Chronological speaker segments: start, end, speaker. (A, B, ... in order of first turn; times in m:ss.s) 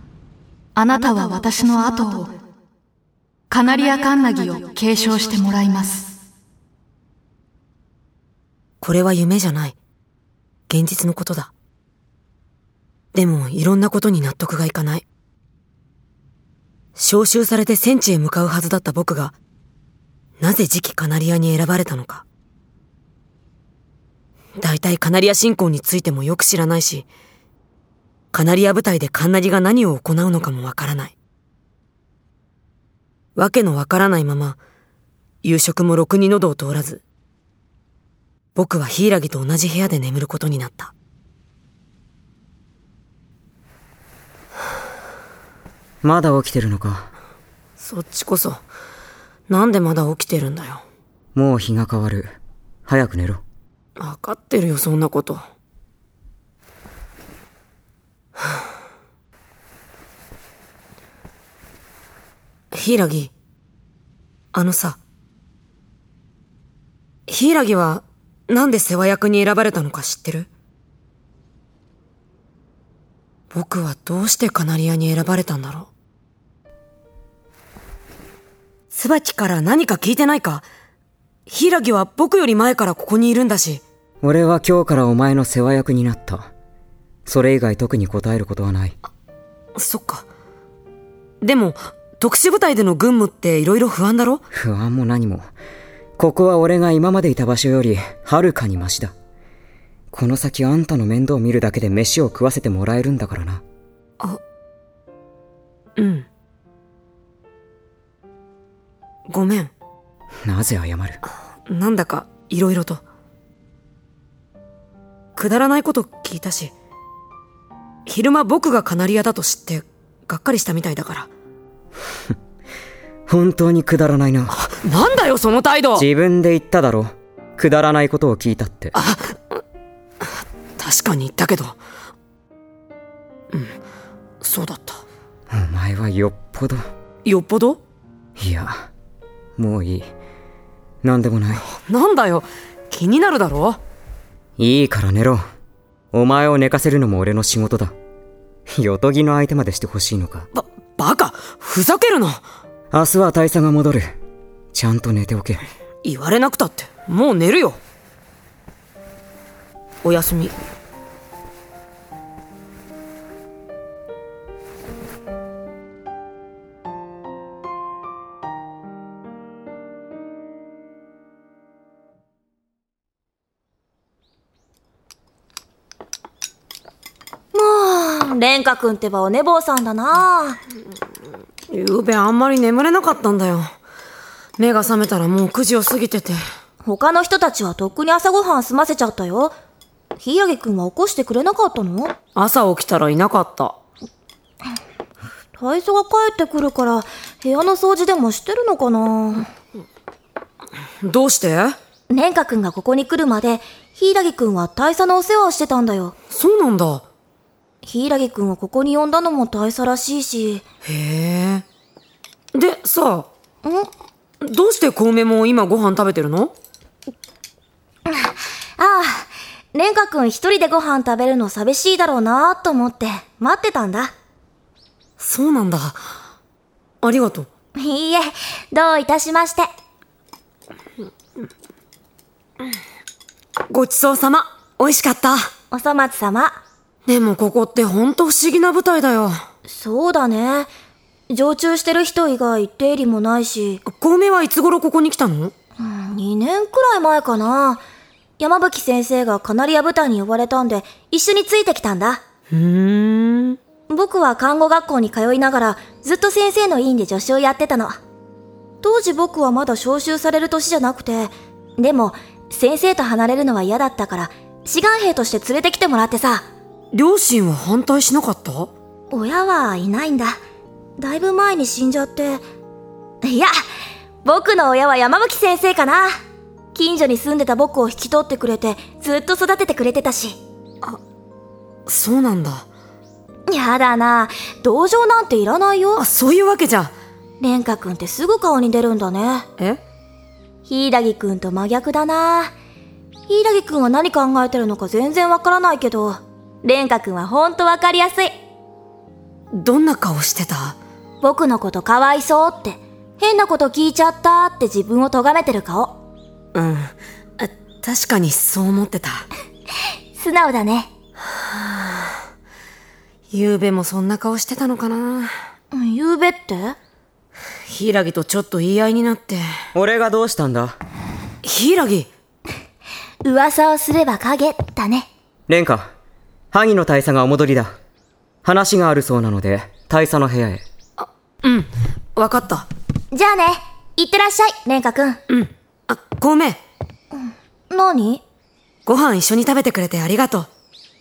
0:00.8-0:02.3 A
0:03.5-0:06.1 A
0:08.8-0:09.8 B
0:10.7-0:11.5 B
0:13.1-0:15.0 B
0:17.0-0:19.4 B
0:20.4-0:22.2 B
0:24.6-0:27.1 B
0:28.3-0:31.2 B
0:33.4-0:34.6 B
0:35.4-0:37.0 B
0:38.6-0:40.9 B
0:46.0-0:47.1 C
0:47.8-0:48.6 B
0:49.5-0:50.8 B
0:51.3-0:52.3 C
0:52.9-0:53.4 C
0:54.0-0:55.4 B
1:02.7-1:03.3 B
1:04.5-1:05.0 B
1:07.3-1:10.5 B
1:13.5-1:15.9 B
1:18.9-1:20.7 B
1:21.5-1:23.8 B
1:24.2-1:26.4 C
1:27.2-1:28.9 C
1:29.8-1:30.2 B
1:31.4-1:34.4 B
1:34.5-1:35.4 C
1:36.2-1:39.1 C
1:40.1-1:43.6 C
1:46.0-1:46.3 B
1:49.3-1:49.7 B
1:50.4-1:51.2 C
1:51.3-1:53.0 B
1:55.4-1:56.7 B
1:58.1-2:01.3 B
2:03.3-2:04.6 C
2:04.5-2:06.1 B
2:06.0-2:09.0 C
2:08.9-2:09.4 B
2:10.8-2:11.8 B
2:14.4-2:15.0 B
2:15.5-2:16.8 C
2:17.2-2:17.8 B
2:18.4-2:18.9 C
2:19.6-2:20.1 C
2:21.0-2:21.6 C
2:21.7-2:23.8 B
2:24.6-2:25.4 C
2:26.1-2:27.9 C
2:28.7-2:30.5 C
2:30.5-2:32.4 B
2:32.9-2:34.1 C
2:34.7-2:35.7 C
2:36.0-2:37.8 B
2:40.0-2:40.5 B
2:57.5-3:00.6 D
3:01.7-3:03.7 B
3:04.6-3:06.4 B
3:06.8-3:09.6 D
3:10.2-3:12.1 D
3:12.4-3:13.8 B
3:15.6-3:19.5 D
3:21.0-3:21.8 B
3:22.1-3:26.1 D
3:26.3-3:27.1 B
3:27.8-3:30.6 D
3:30.8-3:31.6 B
3:32.5-3:33.3 B
3:33.6-3:33.9 D
3:34.4-3:36.5 B
3:38.1-3:44.1 D
3:45.2-3:46.0 B
3:47.0-3:47.5 B
3:47.8-3:49.7 D
3:53.7-3:55.5 B
3:55.7-3:56.6 D
3:57.1-3:59.4 B
3:59.7-4:00.7 D
4:01.3-4:03.8 D
4:03.9-4:05.5 B
4:05.8-4:07.8 D
4:08.4-4:12.2 D
4:12.5-4:13.6 B
4:13.9-4:18.0 D
4:18.8-4:26.4 D
4:26.9-4:28.7 B
4:29.1-4:30.4 D
4:31.0-4:32.4 D
4:33.2-4:33.5 D
4:34.2-4:36.1 D
4:36.7-4:40.4 D
4:41.9-4:42.7 B
4:43.5-4:46.0 D
4:46.0-4:46.9 B
4:47.4-4:49.4 D
4:50.6-4:52.5 D
4:53.3-4:58.4 D
4:59.5-5:00.8 B
5:01.2-5:06.0 D
5:06.6-5:09.3 B
5:10.1-5:10.9 D
5:11.3-5:12.2 B
5:13.3-5:15.3 B
5:15.7-5:16.8 D
5:17.7-5:19.4 B
5:19.7-5:20.8 C
5:21.4-5:22.1 B
5:23.2-5:25.1 D
5:25.5-5:25.9 C
5:26.5-5:27.7 C
5:28.4-5:30.6 C
5:31.0-5:32.7 B
5:33.1-5:35.2 D
5:35.3-5:36.6 B
5:37.1-5:38.2 D
5:38.9-5:40.5 B